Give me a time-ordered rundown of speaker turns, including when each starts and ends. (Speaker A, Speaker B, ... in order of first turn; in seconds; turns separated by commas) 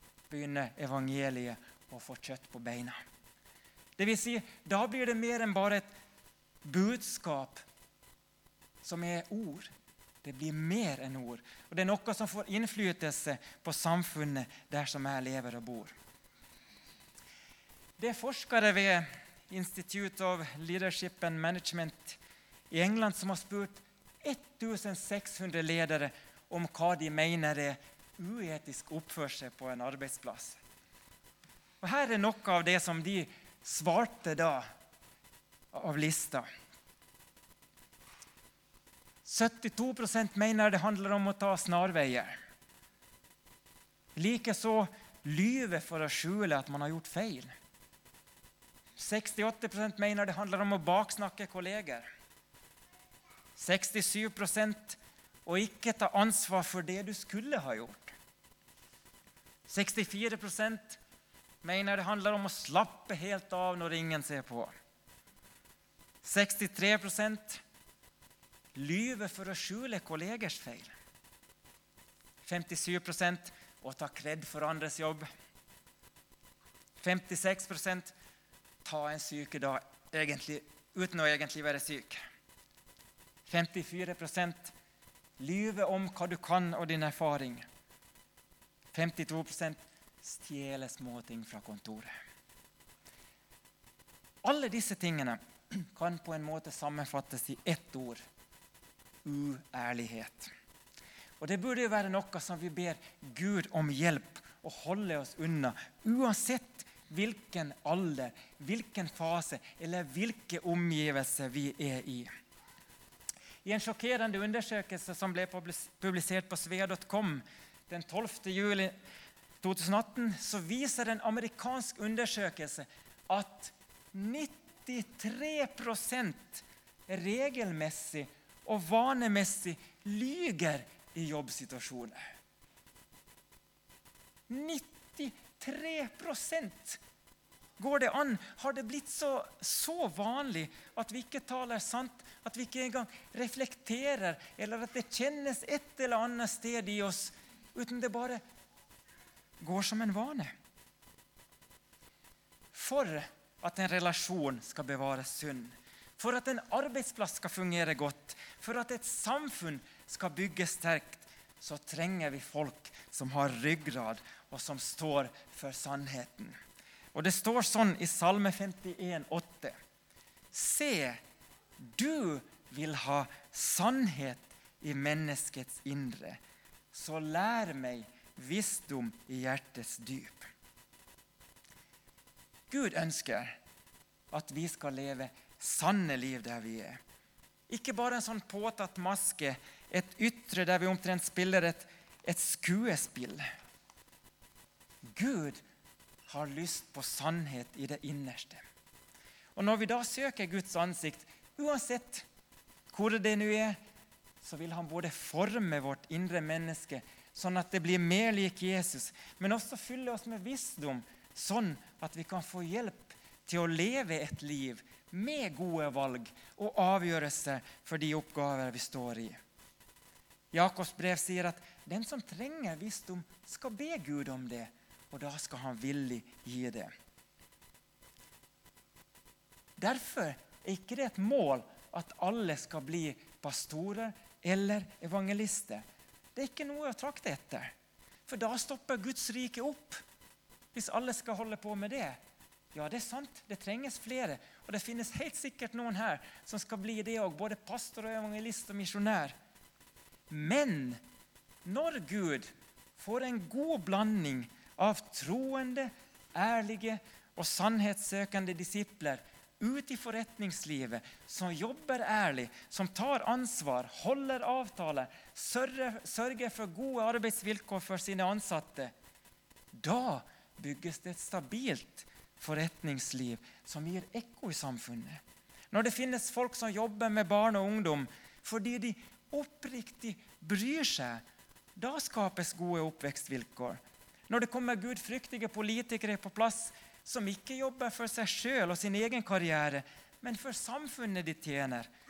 Speaker A: 0.3-3.0, Speaker A: 4.0-5.9, Speaker A: 6.6-7.6, Speaker A: 8.8-9.7, Speaker A: 10.2-16.0, Speaker A: 18.0-22.2, Speaker A: 22.7-30.6, Speaker A: 31.8-34.7, Speaker A: 35.7-36.5, Speaker A: 39.2-42.4, Speaker A: 44.2-47.5, Speaker A: 49.0-52.1, Speaker A: 53.6-58.1, Speaker A: 59.7-61.0, Speaker A: 61.6-64.7, Speaker A: 66.2-67.6, Speaker A: 68.8-70.9, Speaker A: 72.4-75.3, Speaker A: 77.0-78.2, Speaker A: 78.8-82.2, Speaker A: 83.5-84.7, Speaker A: 85.4-87.7, Speaker A: 88.9-92.2, Speaker A: 94.4-98.2, Speaker A: 99.2-100.5, Speaker A: 101.4-112.3, Speaker A: 113.7-118.9, Speaker A: 119.6-132.3, Speaker A: 134.5-137.0, Speaker A: 137.8-148.4, Speaker A: 149.6-150.5, Speaker A: 152.7-166.6, Speaker A: 167.1-169.8, Speaker A: 170.5-171.2, Speaker A: 171.8-176.4, Speaker A: 176.9-180.5, Speaker A: 182.7-183.6, Speaker A: 184.3-187.0, Speaker A: 187.7-193.4, Speaker A: 195.1-195.6, Speaker A: 196.3-198.6, Speaker A: 199.6-202.3, Speaker A: 202.9-203.8, Speaker A: 204.4-219.4, Speaker A: 220.5-226.9, Speaker A: 229.8-237.7, Speaker A: 238.3-240.0, Speaker A: 240.7-242.2, Speaker A: 242.7-249.3, Speaker A: 250.3-251.0, Speaker A: 251.7-268.9, Speaker A: 269.7-281.2, Speaker A: 281.8-291.9